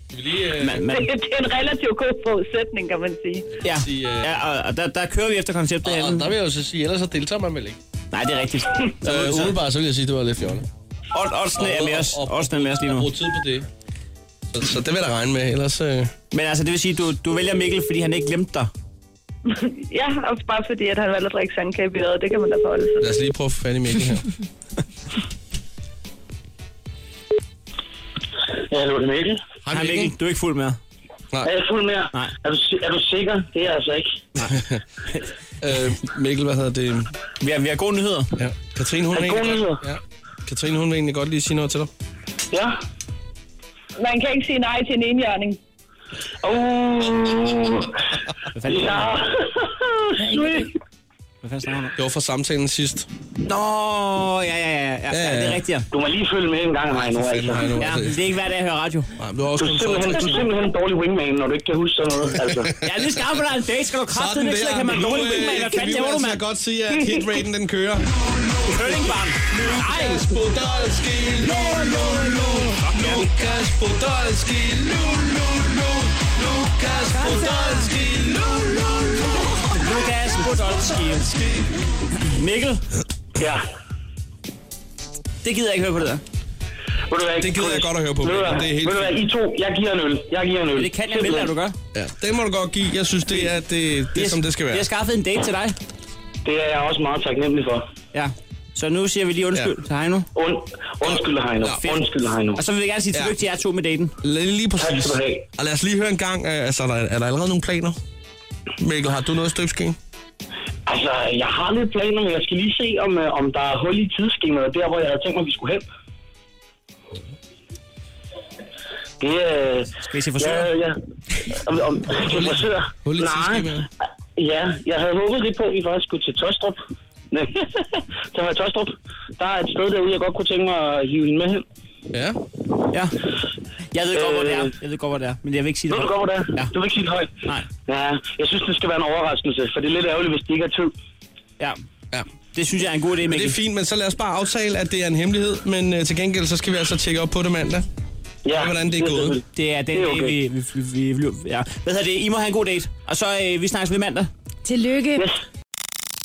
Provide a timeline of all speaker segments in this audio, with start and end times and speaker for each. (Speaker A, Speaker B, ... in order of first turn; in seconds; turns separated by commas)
Speaker A: 0.1-0.9, Speaker B: 0.6-1.1, Speaker C: 0.9-3.5, Speaker B: 3.6-6.3, Speaker A: 3.7-4.3, Speaker A: 5.8-7.8, Speaker B: 8.1-9.5, Speaker A: 9.0-10.7, Speaker B: 11.1-13.1, Speaker A: 11.6-13.7, Speaker A: 14.5-16.1, Speaker B: 16.3-18.7, Speaker C: 19.9-23.1, Speaker A: 23.0-24.3, Speaker D: 28.7-29.4, Speaker A: 29.6-30.1, Speaker B: 29.7-30.8, Speaker D: 31.4-34.2, Speaker A: 34.5-34.8, Speaker A: 35.6-37.1, Speaker B: 37.4-38.4, Speaker A: 38.4-41.9, Speaker D: 39.1-39.8, Speaker D: 42.5-42.8, Speaker C: 44.0-45.6, Speaker D: 46.4-48.0, Speaker B: 48.5-49.1, Speaker D: 48.7-50.6, Speaker E: 50.2-50.7, Speaker B: 51.4-51.9, Speaker A: 52.0-53.1, Speaker B: 53.4-55.9, Speaker A: 55.1-55.6, Speaker D: 55.9-57.7, Speaker A: 56.9-58.2, Speaker B: 57.8-59.1, Speaker A: 59.2-60.5, Speaker D: 59.6-62.7, Speaker A: 62.4-62.7, Speaker B: 62.8-66.4, Speaker A: 64.1-68.1, Speaker B: 68.6-70.2, Speaker A: 69.5-78.7, Speaker E: 71.5-72.7, Speaker B: 72.8-73.3, Speaker E: 77.1-77.9, Speaker B: 79.7-81.5, Speaker B: 82.3-82.8, Speaker D: 83.4-83.7, Speaker B: 85.4-86.2, Speaker D: 87.1-91.5, Speaker A: 87.4-89.2, Speaker B: 90.7-91.8, Speaker A: 91.9-94.8, Speaker B: 94.2-95.8, Speaker D: 96.5-97.9, Speaker B: 98.1-100.3, Speaker D: 100.3-102.6, Speaker A: 101.0-101.9, Speaker B: 102.5-104.2, Speaker A: 104.2-108.0, Speaker D: 104.8-105.4, Speaker A: 108.8-110.0, Speaker D: 110.9-115.8, Speaker D: 119.2-121.0, Speaker B: 120.1-120.7, Speaker D: 121.5-123.8, Speaker A: 122.2-123.9, Speaker D: 124.4-126.8, Speaker D: 127.3-131.6, Speaker A: 132.1-132.4, Speaker B: 133.9-136.7, Speaker D: 134.2-134.7, Speaker D: 135.9-137.3, Speaker D: 137.9-140.9, Speaker B: 142.5-143.6, Speaker A: 143.3-147.9, Speaker D: 148.4-150.3, Speaker A: 148.5-149.4, Speaker B: 149.5-154.3, Speaker E: 154.7-155.3